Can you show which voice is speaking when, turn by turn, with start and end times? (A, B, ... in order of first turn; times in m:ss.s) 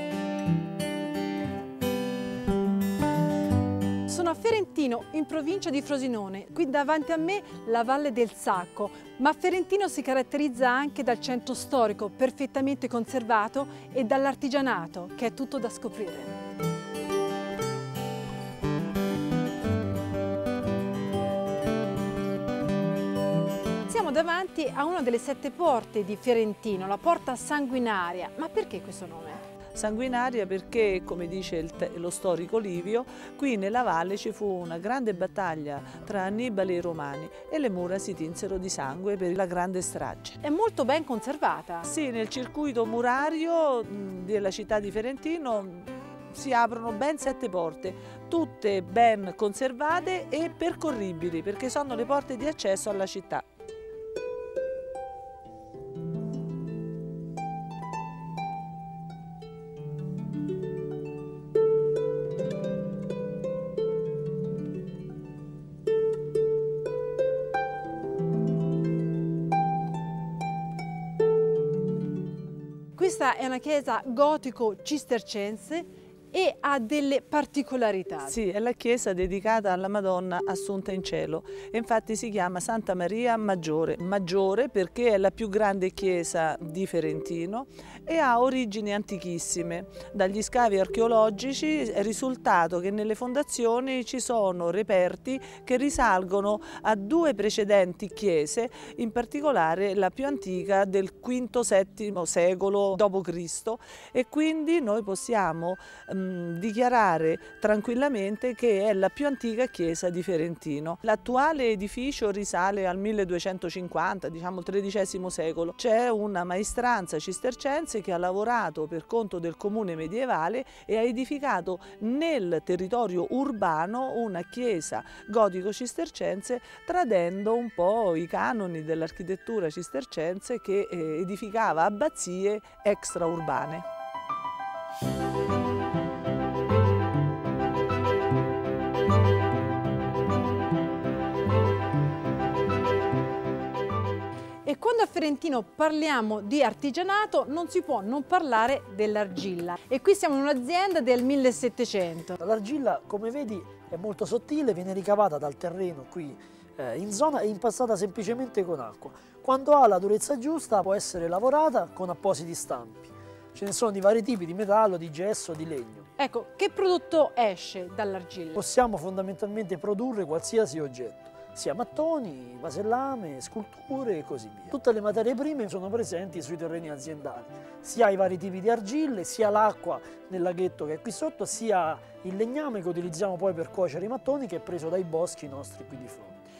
0:04.1-0:16.3 A
0:23.9-0:29.4 A
0:29.7-0:40.4 B
0:40.4-0:41.9 A
0:41.8-0:53.4 B
1:12.9-1:18.4 A
1:18.2-2:13.8 B
2:24.6-2:32.4 A
2:32.4-2:46.1 C
2:46.2-2:48.6 A
2:48.6-3:06.4 C